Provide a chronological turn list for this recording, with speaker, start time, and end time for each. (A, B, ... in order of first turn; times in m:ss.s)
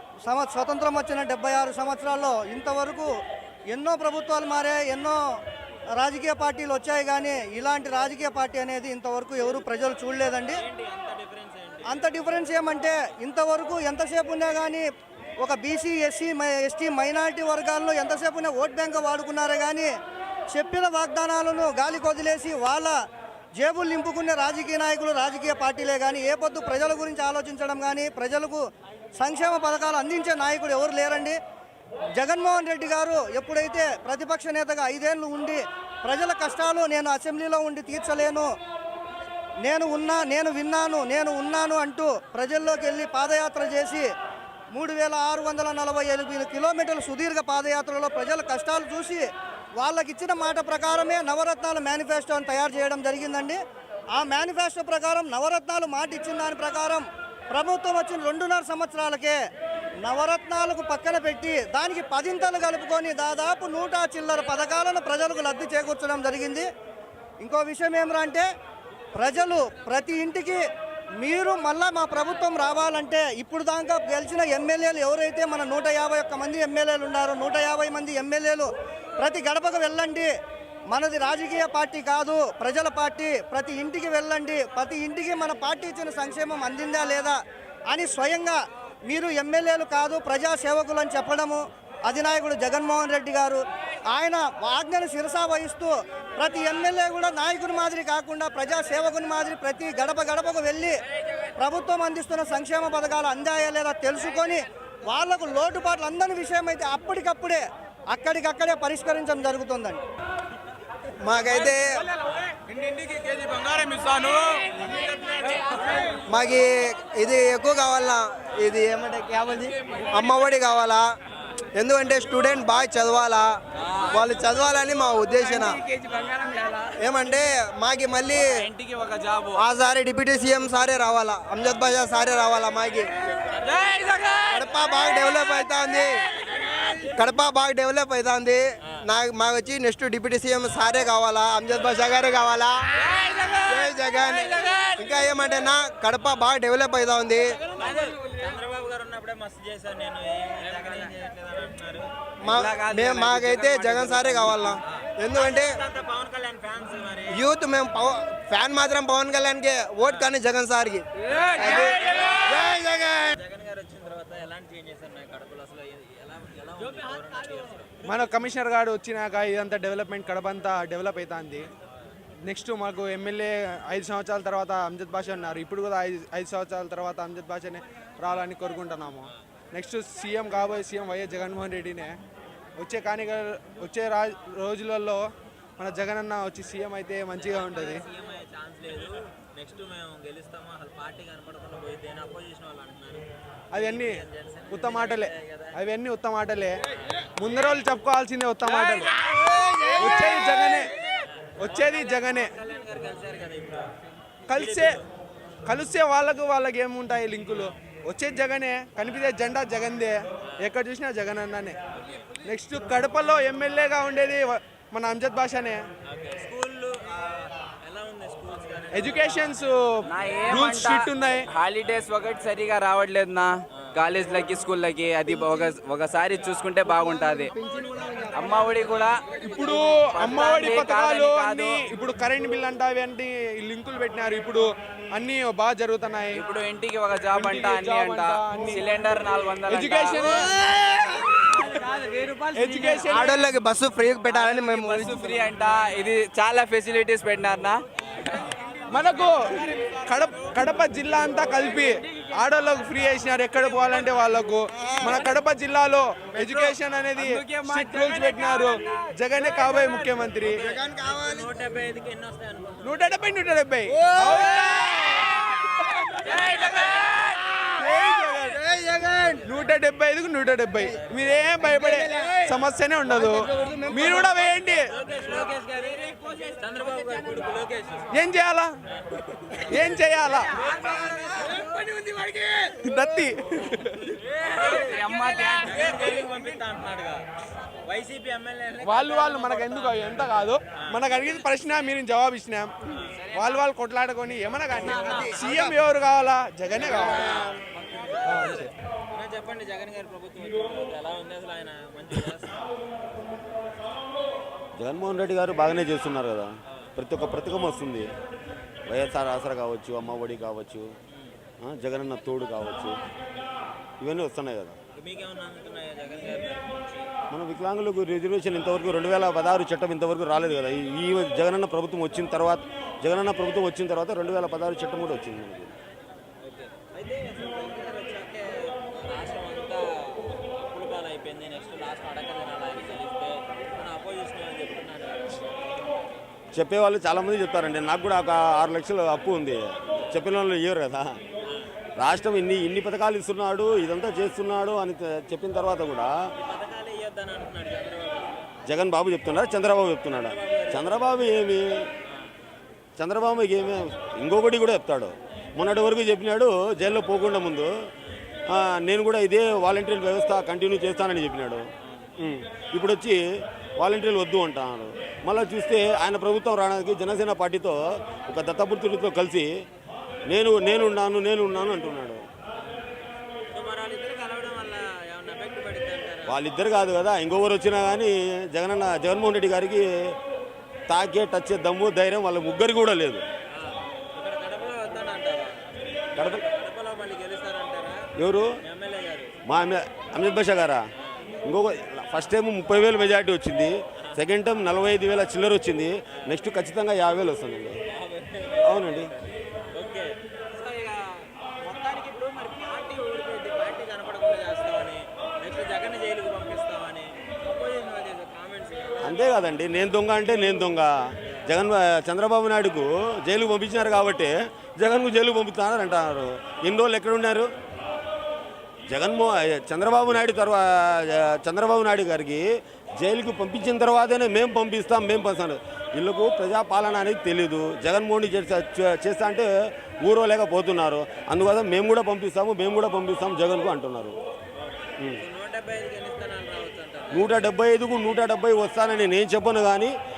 0:00.2-0:03.1 A
0:03.7-0:05.2 A
0:06.0-0:10.6 A
0:10.5-0:12.2 B
0:11.9-0:14.8 A
0:15.4-0:19.9 A
0:20.5-0:23.0 A
0:23.6-0:28.6 A
0:29.2-0:31.4 A
0:32.1-0:38.5 A
0:39.6-0:44.1 A
0:44.7-0:49.2 A
0:49.8-0:53.6 A
0:54.1-0:59.4 A
1:00.0-1:06.7 A
1:07.4-1:08.4 A
1:09.2-1:10.6 A
1:11.2-1:20.3 A
1:20.9-1:41.0 A
1:41.6-1:50.0 A
1:51.2-1:52.0 C
1:54.0-1:54.4 D
1:55.4-1:55.8 D
1:56.2-2:01.1 C
2:01.7-2:05.8 C
2:05.5-2:06.9 D
2:07.0-2:08.7 C
2:08.3-2:09.6 D
2:09.6-2:13.1 C
2:13.5-2:14.1 B
2:13.8-2:14.6 D
2:14.5-2:16.2 C
2:17.1-2:22.9 C
2:23.0-2:25.0 D
2:23.6-2:27.6 C
2:27.7-2:32.1 B
2:32.4-2:35.8 C
2:32.4-2:34.6 D
2:34.9-2:37.4 B
2:37.3-2:43.3 C
2:40.0-2:40.3 B
2:43.3-2:48.1 B
2:48.0-2:51.7 E
2:52.4-3:02.2 E
3:02.8-3:05.2 E
3:05.8-3:08.0 E
3:07.4-3:15.7 B
3:13.7-3:16.7 E
3:17.4-3:19.1 E
3:20.0-3:20.9 E
3:21.0-3:23.9 B
3:21.6-3:22.5 E
3:24.5-3:25.0 E
3:24.5-3:25.0 B
3:25.6-3:31.8 E
3:30.4-3:30.7 B
3:31.9-3:32.3 B
3:32.4-3:35.8 E
3:36.1-3:39.7 B
3:38.9-3:41.5 E
3:40.0-3:47.6 D
3:47.6-3:47.9 C
3:48.3-3:49.2 D
3:49.4-3:56.4 E
3:50.0-3:51.8 D
3:56.3-4:00.4 D
3:57.3-3:58.9 E
3:59.7-4:01.0 E
4:01.7-4:03.0 D
4:02.5-4:03.4 E
4:03.1-4:05.5 C
4:04.3-4:08.5 D
4:08.9-4:20.7 E
4:14.8-4:15.2 C
4:16.4-4:16.7 C
4:17.2-4:18.7 D
4:20.4-4:21.5 C
4:21.0-4:23.1 B
4:22.8-4:25.9 E
4:23.9-4:25.0 C
4:26.2-4:27.1 B
4:26.6-4:27.2 D
4:27.8-4:28.6 E
4:28.3-4:29.5 C
4:29.4-4:34.9 E
4:31.6-4:32.5 C
4:33.1-4:34.2 C
4:34.9-4:38.1 B
4:38.1-4:38.7 E
4:38.9-4:39.6 B
4:39.6-4:40.6 E
4:40.6-4:42.3 B
4:42.8-4:44.1 E
4:44.4-4:47.2 B
4:44.5-4:46.1 D
4:47.8-4:51.5 B
4:48.8-4:52.7 E
4:53.2-4:53.6 D
4:53.3-4:57.4 E
4:54.8-4:55.6 C
4:55.0-4:55.4 D
4:56.7-5:02.6 B
4:58.2-4:58.7 E
5:04.8-5:08.1 F
5:08.9-5:10.9 F
5:11.6-5:13.0 F
5:14.0-5:14.8 F
5:14.9-5:17.1 B
5:17.3-5:25.7 F
5:26.4-5:35.6 B
5:36.5-5:41.2 F
5:42.0-5:46.1 F
5:46.4-5:48.5 B
5:48.6-5:51.9 F
5:50.1-5:51.1 B
5:53.0-5:57.7 F
5:58.5-6:01.6 F
6:01.8-6:02.1 B
6:02.2-6:03.2 F
6:03.8-6:09.6 F
6:10.3-6:12.2 F
6:13.5-6:16.4 B
6:16.2-6:20.1 F
6:20.9-6:23.2 F
6:23.5-6:28.1 B
6:26.2-6:26.4 F
6:28.2-6:28.5 F
6:28.6-6:29.3 B
6:29.4-6:30.8 F
6:31.4-6:37.8 F
6:37.9-6:49.6 B
6:38.6-6:39.1 F
6:49.0-6:57.5 F
6:58.9-7:02.4 F
7:03.0-7:09.5 F
7:10.0-7:14.1 F
7:14.6-7:17.5 B
7:17.1-7:19.9 F